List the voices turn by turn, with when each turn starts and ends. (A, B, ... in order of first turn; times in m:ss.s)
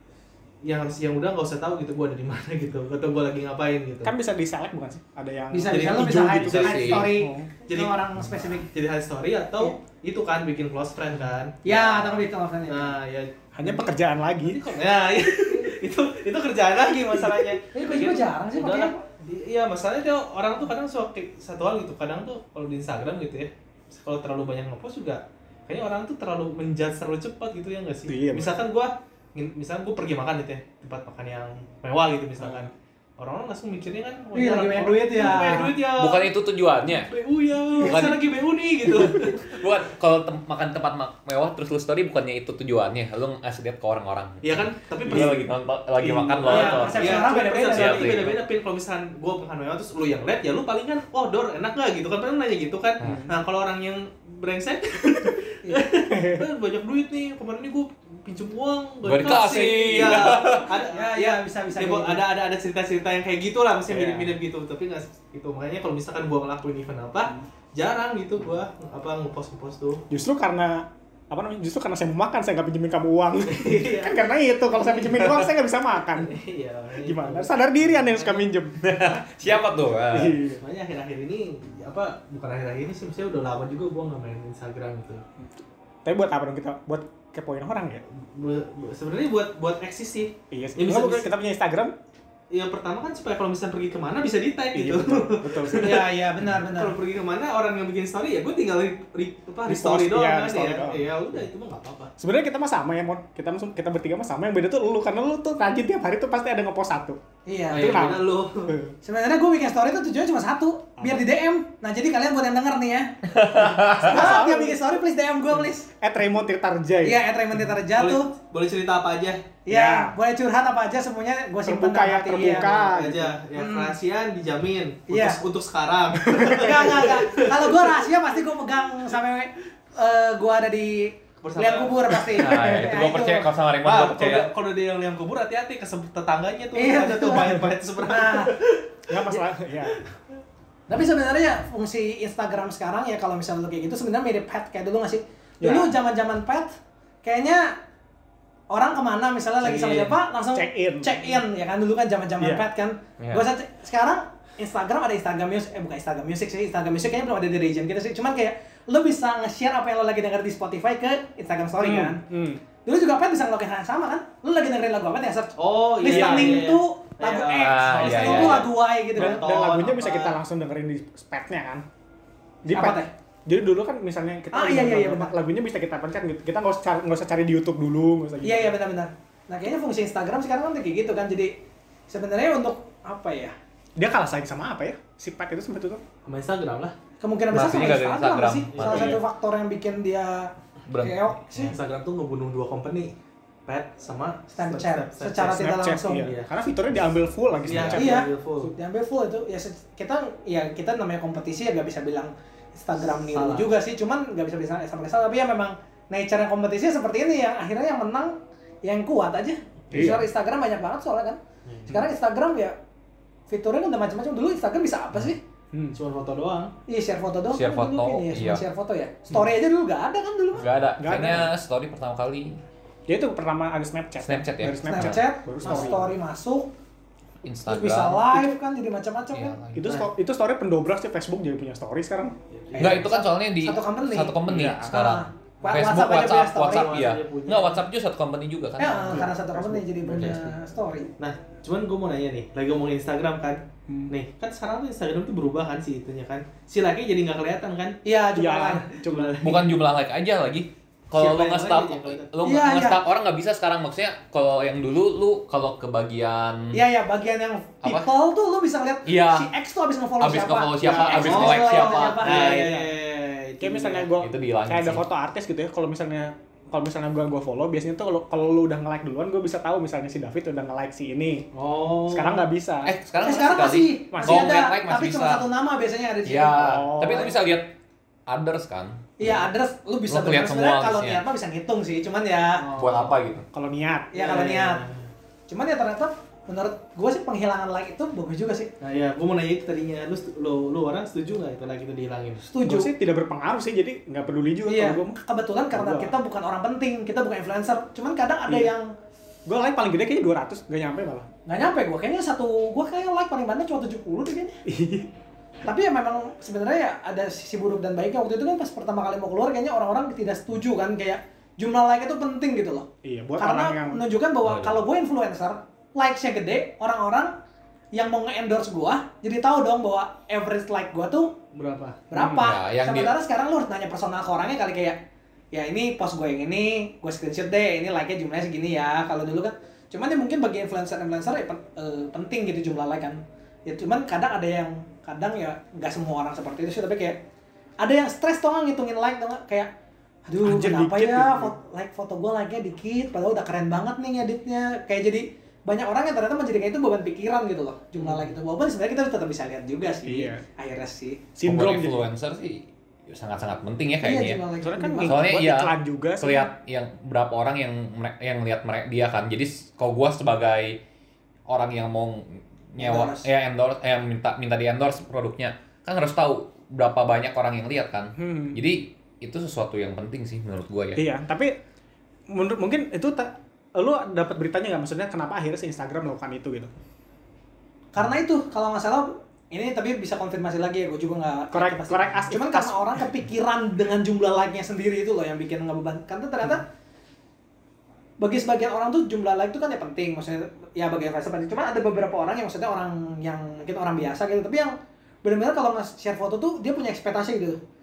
0:00.6-0:04.1 A
0:04.0-0:07.6 B
0:05.5-0:08.7 C
0:05.7-0:07.0 A
0:06.4-0:07.1 D
0:07.7-0:08.0 A
0:08.6-0:36.3 A
0:11.6-0:13.0 C
0:13.6-0:14.6 B
0:15.5-0:15.8 C
0:17.0-0:19.1 C
0:28.1-0:28.6 B
0:32.4-0:32.7 B
0:34.3-0:35.7 C
0:35.3-0:37.1 D
0:36.9-0:39.7 A
0:37.8-0:38.2 C
0:37.8-0:38.3 D
0:38.9-0:48.4 D
0:44.4-0:45.4 A
0:45.1-0:45.4 B
0:46.0-0:47.5 B
0:46.5-1:10.1 A
0:46.5-0:48.2 C
0:53.0-0:53.3 B
0:56.1-0:56.4 B
0:59.0-1:00.7 D
0:59.3-1:02.2 C
1:03.9-1:04.3 B
1:10.1-1:16.4 B
1:13.4-1:15.3 A
1:16.1-1:18.5 A
1:17.0-1:19.2 B
1:18.8-1:20.4 D
1:20.0-1:20.6 B
1:20.6-1:25.2 A
1:26.0-1:28.0 B
1:28.1-1:31.3 A
1:30.5-1:31.9 B
1:32.5-1:42.1 A
1:34.7-1:36.0 B
1:35.7-1:37.0 C
1:39.7-1:41.0 B
1:42.2-1:47.2 B
1:47.5-1:48.0 C
1:47.7-1:48.8 A
1:47.8-1:48.9 B
1:49.0-1:53.2 C
1:53.3-1:54.2 D
1:54.0-1:55.9 C
1:54.0-1:54.8 B
1:56.0-1:57.2 B
1:57.0-1:58.3 C
1:57.9-1:59.5 A
1:59.7-2:02.7 C
1:59.7-2:00.1 B
2:01.6-2:03.4 B
2:02.4-2:08.1 A
2:03.6-2:04.0 C
2:05.1-2:05.4 C
2:06.3-2:06.6 B
2:06.5-2:13.5 C
2:11.4-2:12.3 A
2:12.4-2:12.9 B
2:12.4-2:14.5 D
2:13.8-2:20.1 A
2:16.8-2:18.5 C
2:19.1-2:20.0 B
2:20.9-2:27.8 C
2:25.6-2:25.9 B
2:28.7-2:42.2 C
2:29.6-2:30.2 A
2:30.5-2:31.2 B
2:32.4-2:32.7 B
2:33.2-2:33.4 D
2:41.8-2:42.6 B
2:42.8-2:49.5 C
2:45.6-2:50.2 A
2:46.1-2:46.7 B
2:47.6-2:48.7 D
2:49.2-2:51.8 B
2:50.0-2:50.3 C
2:52.7-2:58.8 B
2:52.7-2:53.1 C
2:54.5-2:55.3 C
2:58.4-3:01.5 C
3:02.1-3:03.6 C
3:04.0-3:06.0 B
3:06.3-3:07.0 A
3:07.2-3:11.8 C
3:07.5-3:09.2 D
3:08.7-3:09.2 A
3:10.9-3:11.4 D
3:11.6-3:13.1 A
3:13.7-3:16.5 A
3:14.6-3:16.3 C
3:15.6-3:18.3 B
3:17.6-3:18.8 A
3:17.9-3:32.8 C
3:23.3-3:23.7 A
3:29.9-3:30.2 B
3:31.7-3:32.1 A
3:33.5-3:35.4 C
3:36.0-3:36.7 A
3:36.9-3:40.7 C
3:37.5-3:38.6 D
3:40.5-3:42.6 D
3:41.0-3:41.5 B
3:43.1-3:46.1 B
3:44.2-3:45.2 D
3:44.9-3:46.7 C
3:45.6-3:46.0 A
3:47.4-3:48.3 D
3:47.7-3:49.6 C
3:49.3-3:50.0 D
3:49.7-3:52.9 B
3:52.5-3:53.1 A
3:52.8-3:54.4 C
3:52.8-3:59.3 D
3:54.5-3:54.9 B
3:54.9-3:56.9 C
3:56.7-3:57.8 A
3:58.8-4:01.1 C
3:59.1-4:00.3 B
4:00.1-4:00.5 A
4:01.2-4:08.0 A
4:03.9-4:04.1 B
4:08.0-4:08.9 C
4:08.4-4:09.4 B
4:09.0-4:09.8 A
4:09.4-4:16.8 D
4:11.1-4:12.3 A
4:12.4-4:13.0 C
4:16.7-4:22.7 C
4:19.0-4:19.5 D
4:20.2-4:22.5 D
4:20.8-4:21.6 B
4:21.3-4:24.1 A
4:22.4-4:22.8 B
4:23.6-4:31.5 B
4:24.2-4:25.0 D
4:31.5-4:32.5 A
4:32.1-4:32.9 B
4:32.8-4:35.5 D
4:33.2-4:37.3 C
4:34.1-4:34.6 B
4:36.2-4:37.7 D
4:36.6-4:37.3 B
4:38.3-4:39.0 D
4:39.2-4:42.7 C
4:39.2-4:39.5 A
4:40.1-4:41.2 D
4:42.6-4:43.2 A
4:42.8-4:43.4 D
4:43.5-4:44.1 B
4:44.1-4:44.8 C
4:44.1-4:45.1 A
4:45.5-4:48.7 C
4:48.8-4:52.4 A
4:52.5-4:52.9 C
4:52.6-4:55.2 B
4:54.7-4:58.9 C
4:55.7-4:56.1 B
4:58.5-4:58.7 B
4:59.5-5:01.3 B
5:01.5-5:04.6 C
5:04.7-5:05.1 B
5:05.6-5:12.9 C
5:13.0-5:14.0 B
5:13.4-5:17.4 C
5:14.4-5:14.9 D
5:17.9-5:21.4 C
5:21.5-5:22.0 A
5:22.1-5:25.0 C
5:22.1-5:22.5 B
5:22.4-5:23.1 D
5:25.5-5:37.2 C
5:37.8-5:39.7 C
5:40.3-5:51.3 C
5:40.4-5:41.6 B
5:50.0-5:50.4 B
5:51.4-5:52.1 B
5:51.4-5:54.4 D
5:54.0-5:55.2 C
5:54.6-5:56.5 B
5:55.0-6:00.8 D
6:01.5-6:11.0 D
6:02.8-6:03.2 C
6:08.2-6:08.6 B
6:11.0-6:11.6 B
6:12.3-6:16.7 B
6:17.9-6:26.6 C
6:21.5-6:23.2 B
6:28.2-6:37.6 C